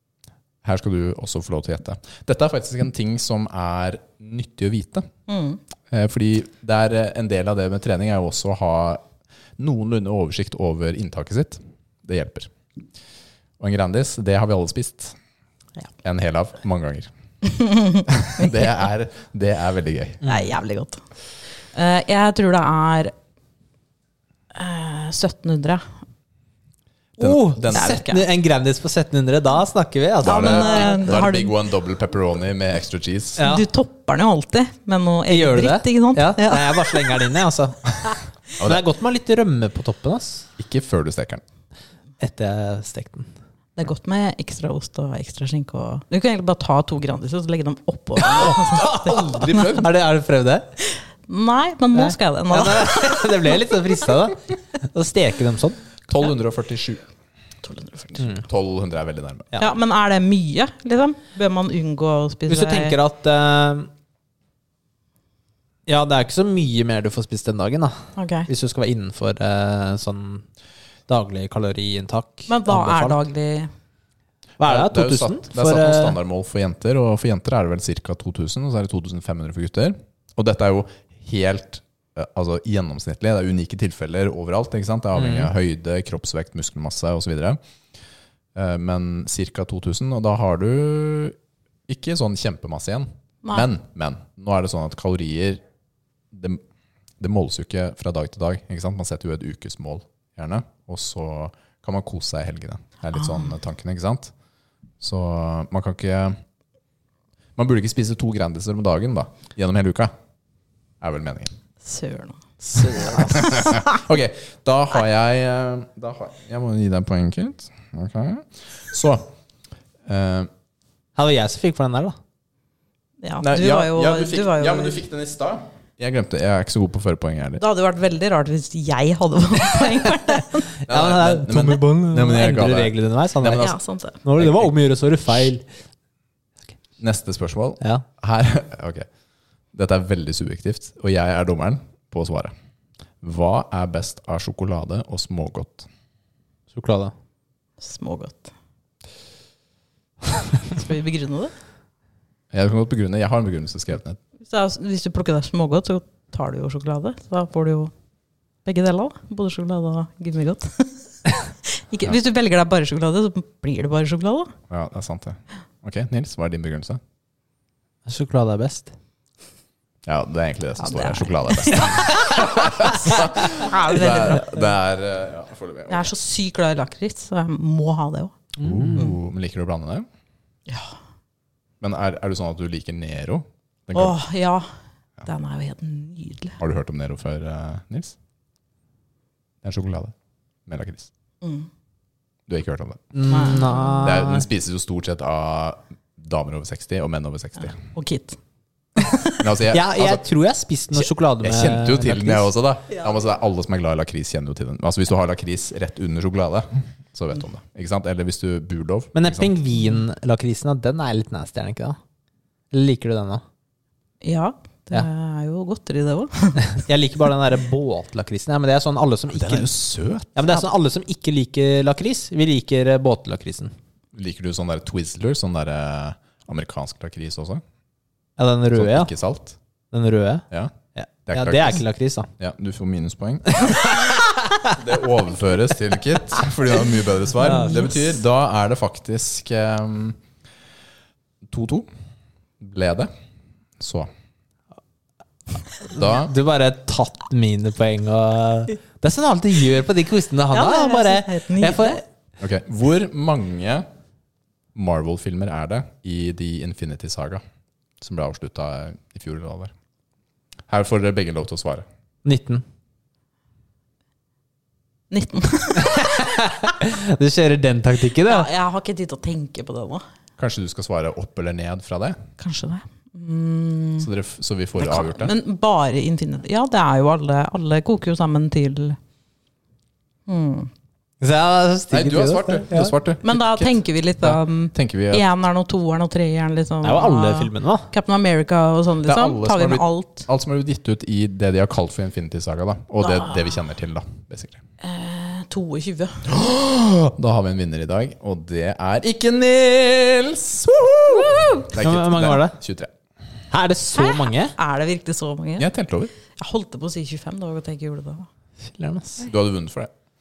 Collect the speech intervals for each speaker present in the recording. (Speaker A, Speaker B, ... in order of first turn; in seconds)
Speaker A: 0.6-5.1, 5.9-9.0, 9.6-12.5, 13.6-15.2, 16.0-17.1, 18.1-20.2, 27.2-28.0, 30.2-33.4, 40.6-41.4, 48.7-49.9, 56.1-57.0, 58.3-59.5, 74.6-87.6, 88.5-91.3, 91.9-95.6, 96.3-96.6, 97.2-104.3, 105.0-106.4, 107.6-110.1, 111.0-111.5, 112.9-119.3, 120.0-120.5, 123.4-127.6, 130.9-134.7, 135.3-135.5, 137.0-139.1, 139.7-142.5, 143.2-145.9, 152.5-154.2, 164.7-167.0, 170.1-176.1, 178.6-180.1, 181.8-184.2, 186.6-188.2, 189.6-190.1, 190.7-191.1, 192.5-193.2, 194.0-197.8, 199.4-200.2, 201.0-209.6, 219.3-220.4, 224.1-227.6, 228.7-229.6, 231.3-231.8, 232.4-234.1, 234.7-240.2, 241.5-241.9, 242.6-243.1, 243.8-244.1, 245.9-246.3, 252.4-253.8, 254.7-257.4, 258.0-259.7, 260.7-261.8, 270.4-272.2, 274.0-275.3, 281.9-285.2, 289.1-294.6, 296.2-302.9, 305.6-306.1, 309.2-309.9
Speaker B: 5.3-5.6, 17.5-18.5, 20.2-21.0, 21.7-23.1, 24.5-25.9, 27.7-28.2, 30.2-31.5, 33.4-37.2, 43.8-49.8, 50.9-53.6, 57.6-58.2, 59.6-63.0, 68.2-68.5, 72.5-73.7, 103.2-103.5, 111.8-113.9, 123.2-125.0, 127.6-130.7, 133.6-134.2, 147.8-148.5, 150.7-151.5, 154.5-157.9, 158.6-161.0, 161.7-164.5, 170.8-174.7, 175.9-178.3, 180.7-180.9, 183.9-184.7, 185.2-186.6, 191.4-191.7, 193.3-194.0, 197.6-198.4, 199.0-199.4, 214.2-216.8, 250.5-252.0, 265.1-265.9, 268.2-270.0, 272.4-274.1, 274.8-279.0, 280.3-280.7, 283.2-290.2, 293.0-293.4, 294.8-296.3, 301.3-301.6, 303.9-305.7, 306.4-308.3
Speaker C: 20.2-20.5, 27.2-31.2, 33.4-33.6, 35.3-37.9, 38.6-40.5, 42.2-43.3, 48.3-50.6, 51.9-55.8, 58.2-58.4, 62.5-63.9, 65.9-70.4, 71.1-73.2, 74.6-76.2, 85.2-85.5, 121.2-122.2, 130.8-133.7, 134.2-135.6, 146.7-147.1, 168.1-168.9, 178.6-179.1, 193.1-194.4, 199.7-202.5, 209.1-212.0, 212.7-213.4, 216.7-219.7, 220.3-223.7, 228.4-229.1, 229.9-230.4, 230.9-232.3, 233.6-234.6, 237.4-238.0, 245.8-252.0, 262.2-262.6, 265.9-268.5, 281.2-282.9, 286.8-287.9, 301.8-302.6, 303.5-304.5, 308.7-309.2